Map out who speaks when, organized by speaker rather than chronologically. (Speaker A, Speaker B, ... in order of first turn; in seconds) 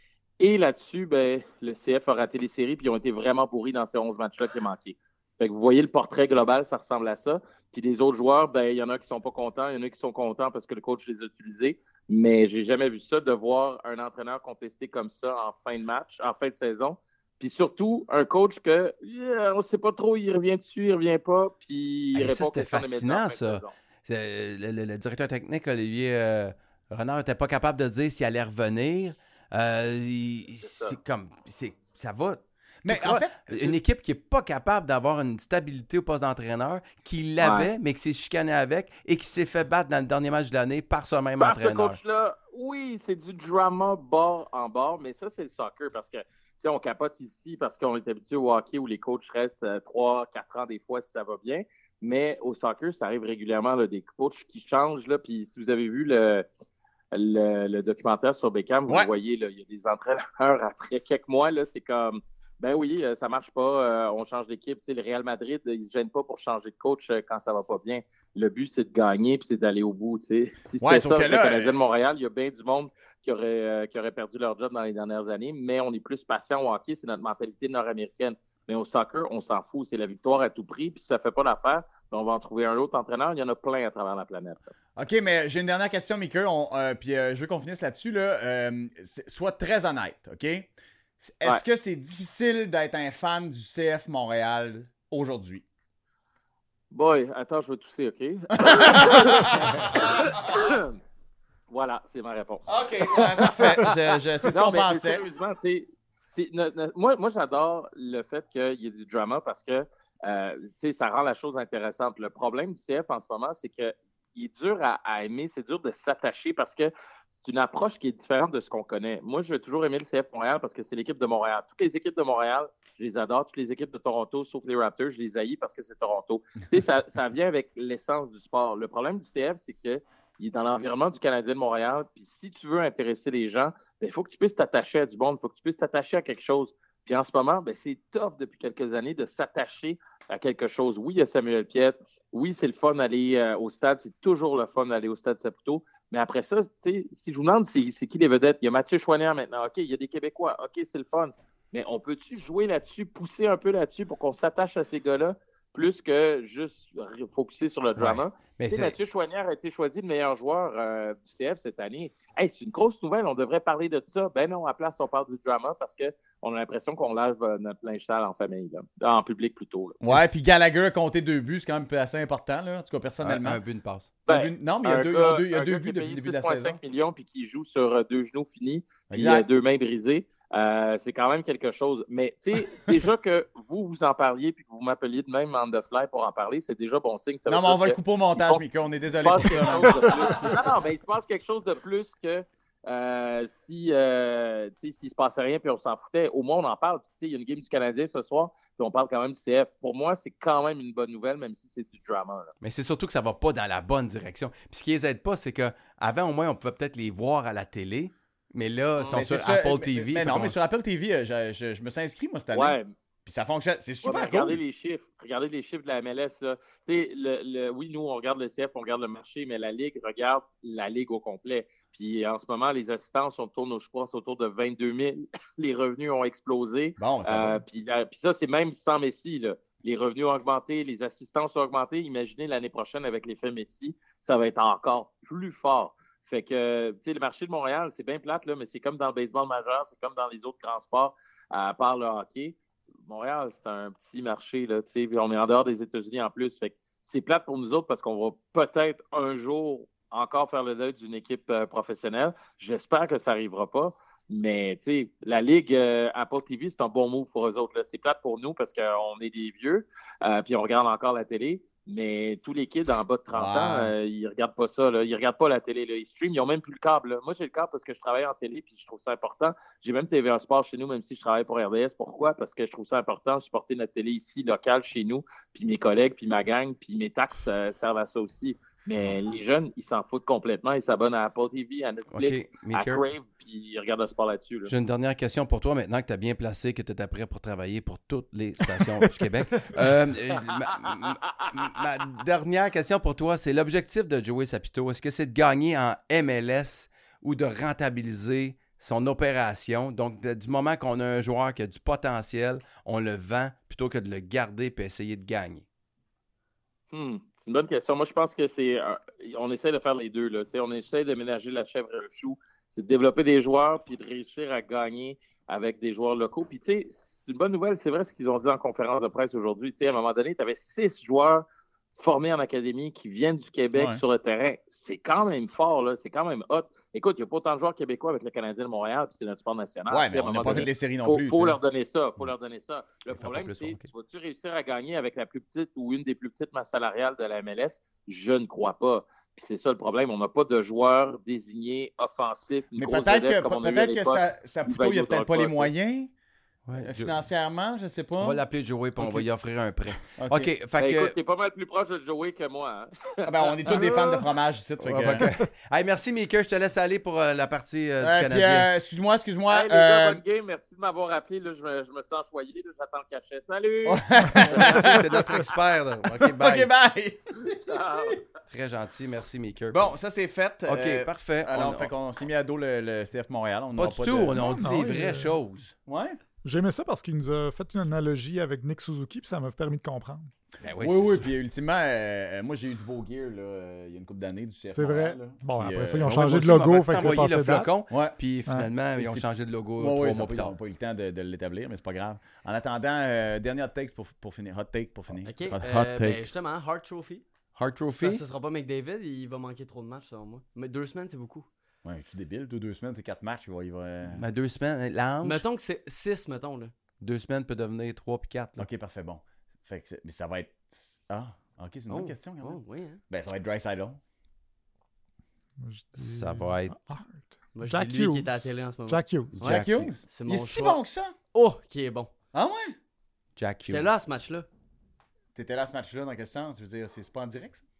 Speaker A: 0.4-23.7, 30.6-31.0, 37.4-37.7, 41.4-56.5, 57.1-84.7, 96.9-101.0, 101.7-170.0, 174.3-202.5, 212.5-212.9, 214.0-284.7, 290.8-291.5, 306.9-345.7, 350.8-353.8, 359.5-365.0, 367.5-368.2
Speaker B: 22.1-42.0, 158.0-158.9, 173.2-174.1, 202.6-210.6, 282.1-283.0, 284.7-305.7, 333.2-333.9, 346.7-347.2, 348.2-351.2, 354.8-358.7, 364.4-366.7, 368.5-369.9, 370.7-371.9, 373.8-375.7, 380.6-381.3, 386.1-390.5, 397.6-398.2, 404.1-405.4, 407.0-408.7, 416.0-416.8, 419.4-420.0, 423.4-423.9
Speaker C: 32.8-33.8, 70.8-71.7, 85.0-90.7, 91.2-95.6, 98.6-100.5, 102.7-105.2, 170.0-173.6, 174.3-176.8, 179.1-179.5, 187.5-190.5, 209.1-214.6, 227.0-227.6, 263.3-263.9, 323.8-324.0, 329.9-331.6, 342.8-346.1, 346.8-348.4, 349.0-349.3, 350.0-350.5, 353.2-355.3, 358.0-360.2, 363.9-365.5, 366.1-368.2, 369.7-374.6, 375.9-376.2, 380.6-386.6, 387.9-388.2, 389.0-396.2, 401.8-404.2, 408.6-414.0, 419.4-421.1, 422.3-422.8, 425.4-427.6
Speaker D: 374.4-375.4, 376.4-380.3, 384.7-387.7, 415.6-419.4
Speaker E: 395.2-397.2, 398.0-401.5, 405.2-406.7, 411.9-413.0, 417.6-420.8, 421.3-422.1, 423.7-424.5